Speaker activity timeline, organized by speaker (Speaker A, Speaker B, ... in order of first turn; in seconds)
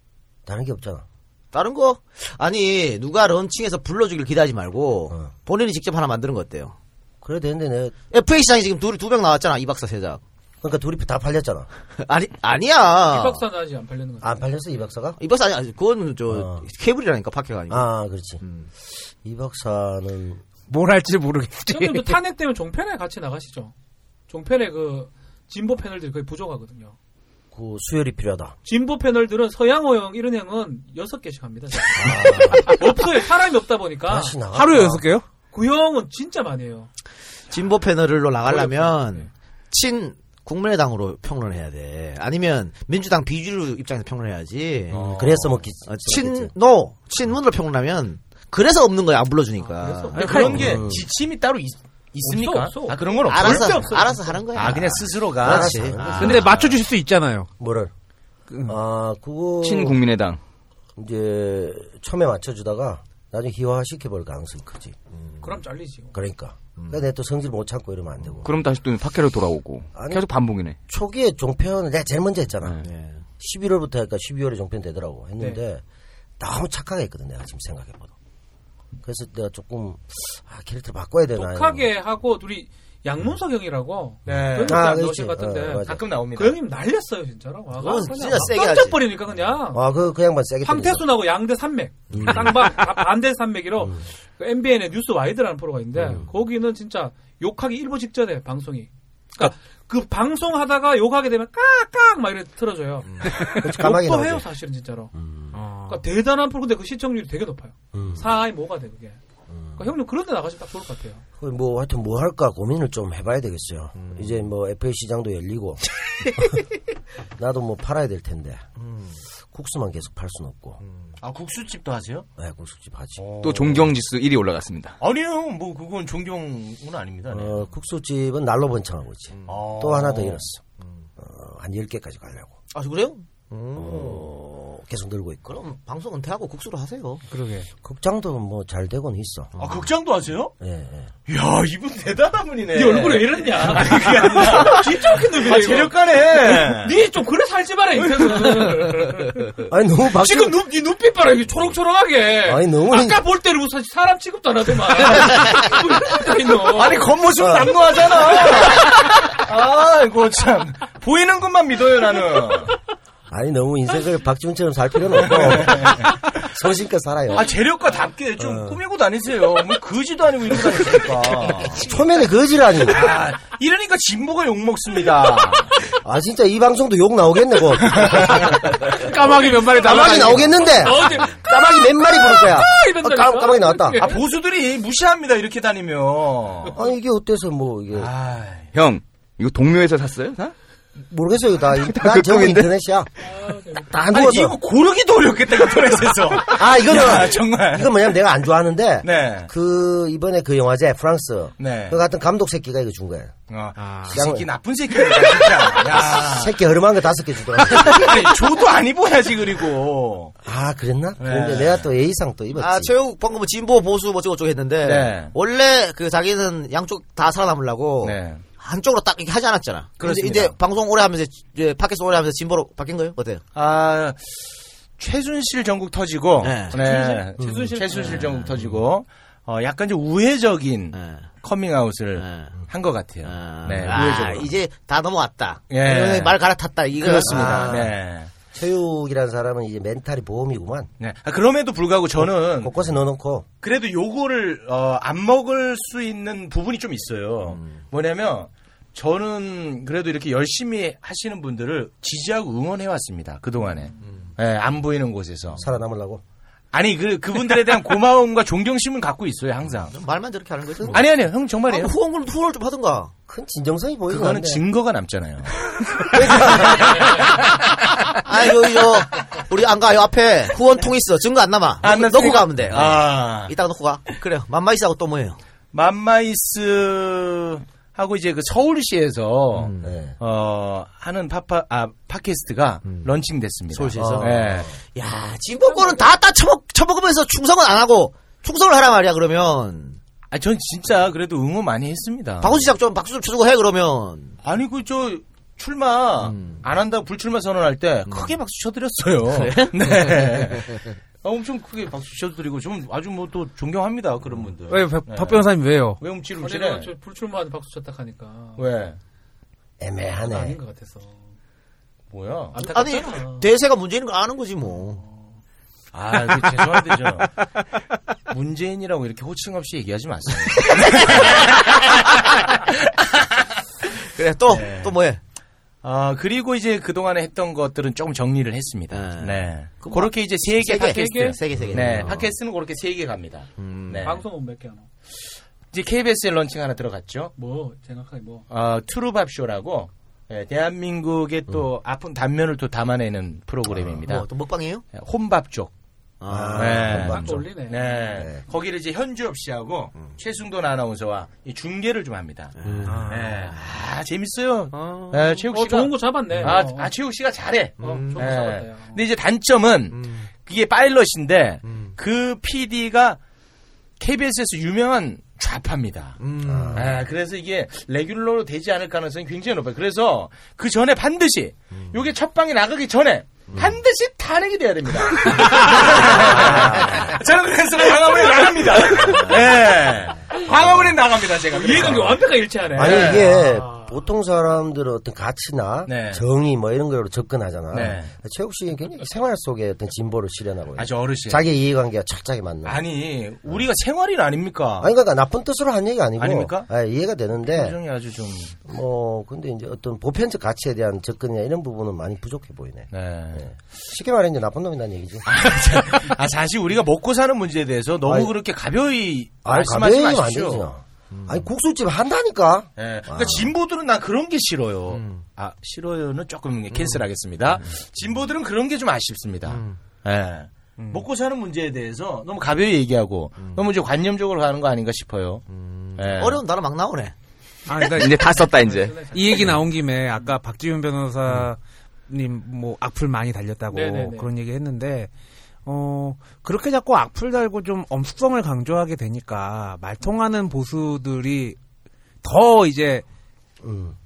Speaker A: 0.5-1.0, 7.2-7.9, 10.6-11.7, 14.2-15.2, 16.3-16.6, 17.7-18.4, 19.2-20.4, 27.5-28.5, 31.9-32.8, 34.1-35.0, 44.9-46.5, 50.5-51.1, 55.4-56.5, 57.6-57.9, 58.6-60.0, 61.0-64.9, 66.1-68.5, 69.9-70.3, 70.9-72.8, 73.4-75.8, 76.4-78.1, 79.0-81.9, 84.7-86.0, 89.7-91.0, 103.5-104.5, 105.1-105.5, 107.9-108.2, 111.4-115.8, 117.4-118.6, 119.5-120.8, 122.4-123.2, 127.3-130.6, 131.2-132.5, 133.8-135.6, 137.8-139.5, 140.6-141.1, 149.7-150.6, 152.4-153.2, 157.4-157.8, 163.3-167.5, 168.4-168.8, 171.7-173.1, 176.0-178.7, 179.8-184.0, 186.7-188.1, 191.1-193.1, 193.9-194.6, 196.5-203.3, 204.1-204.4, 205.9-208.2, 210.4-212.9, 237.0-237.9, 238.5-240.9, 242.2-243.4, 255.6-256.2, 263.3-264.6, 266.0-267.2, 279.8-280.1, 283.9-284.7, 309.8-310.6, 346.3-347.4, 348.1-348.4, 352.6-353.0, 366.4-367.0, 376.1-377.1, 382.7-392.8, 394.8-397.8, 398.6-405.2, 408.0-408.3, 409.4-413.5, 443.6-443.9
Speaker B: 1.5-6.8, 8.1-10.2, 12.0-13.4, 15.2-17.9, 18.4-18.7, 37.5-45.3, 45.9-50.4, 53.3-56.4, 72.8-73.2, 87.7-89.0, 92.1-92.4, 118.8-119.2, 132.7-134.3, 135.4-137.2, 139.6-139.8, 212.5-223.4, 226.4-226.8, 227.9-228.5, 230.9-231.3, 232.2-232.5, 233.2-237.8, 247.5-247.8, 259.9-261.0, 261.7-263.1, 268.1-275.4, 279.6-279.9, 283.7-290.0, 292.4-294.4, 296.2-296.6, 298.1-298.4, 299.3-300.6, 312.6-315.0, 320.7-321.4, 324.1-325.2, 328.9-332.3, 333.6-334.1, 344.0-344.8, 346.2-347.1, 352.6-353.7, 354.7-355.4, 357.8-358.3, 359.9-360.3, 361.6-361.9, 366.2-366.9, 411.1-411.4, 414.9-415.2, 416.7-417.0, 419.5-419.8, 425.5-427.1
Speaker C: 13.1-14.5, 21.7-23.7, 24.3-26.9, 28.6-34.4, 35.5-36.9, 38.4-39.3, 49.6-50.6, 52.2-54.4, 65.4-66.2, 81.3-89.8, 90.6-105.1, 105.9-109.2, 109.8-111.2, 142.7-157.1, 179.4-184.2, 193.2-193.9, 226.7-228.2, 306.4-308.6, 310.2-311.3, 312.5-313.5, 315.0-315.2, 330.9-331.4, 334.0-334.9, 337.4-338.4, 347.1-348.1, 355.5-356.9, 357.8-359.0, 381.5-383.9, 428.5-430.3, 433.7-434.3
Speaker D: 20.7-22.2, 34.5-35.2, 50.2-50.6, 56.1-57.5, 58.5-58.8, 105.5-106.0, 137.3-137.7, 178.9-180.6, 203.8-204.1, 304.7-306.0, 352.9-353.2, 427.7-428.5, 429.1-435.1, 435.6-441.6, 442.2-443.0
Speaker E: 44.9-45.5, 50.1-53.9, 54.5-56.8, 84.3-84.8, 85.8-86.6, 121.2-122.3, 123.2-123.8, 125.0-127.6, 129.5-130.4, 139.6-140.5, 141.3-146.9, 156.7-162.7, 165.2-166.1, 167.3-171.8, 172.9-175.7, 177.9-178.6, 184.0-186.8, 187.9-188.7, 194.1-197.9, 199.0-199.5, 201.6-202.0, 203.5-206.5, 207.6-210.3, 211.2-211.8, 214.8-215.3, 218.0-218.4, 220.0-220.5, 223.5-224.5, 225.0-234.5, 235.7-236.4, 237.0-238.3, 241.0-242.7, 243.6-255.6, 256.7-259.9, 260.9-261.9, 264.1-265.7, 266.3-267.2, 271.8-273.5, 275.7-284.7, 290.3-292.7, 294.4-306.9, 308.6-309.0, 312.1-312.6, 315.9-317.3, 318.3-323.2, 324.4-325.0, 325.8-334.2, 335.7-337.3, 338.5-344.3, 344.9-345.7, 346.5-352.5, 353.1-363.2, 364.0-366.2, 366.7-382.2, 382.8-383.2, 385.9-386.2, 387.7-388.1, 390.8-391.5, 392.6-394.9, 396.2-396.7, 397.4-398.6, 402.9-403.5, 405.2-410.7, 412.8-425.4, 425.9-426.4
Speaker F: 59.6-60.4, 68.4-70.8, 123.4-125.0, 188.7-190.5, 191.7-192.7, 427.9-429.6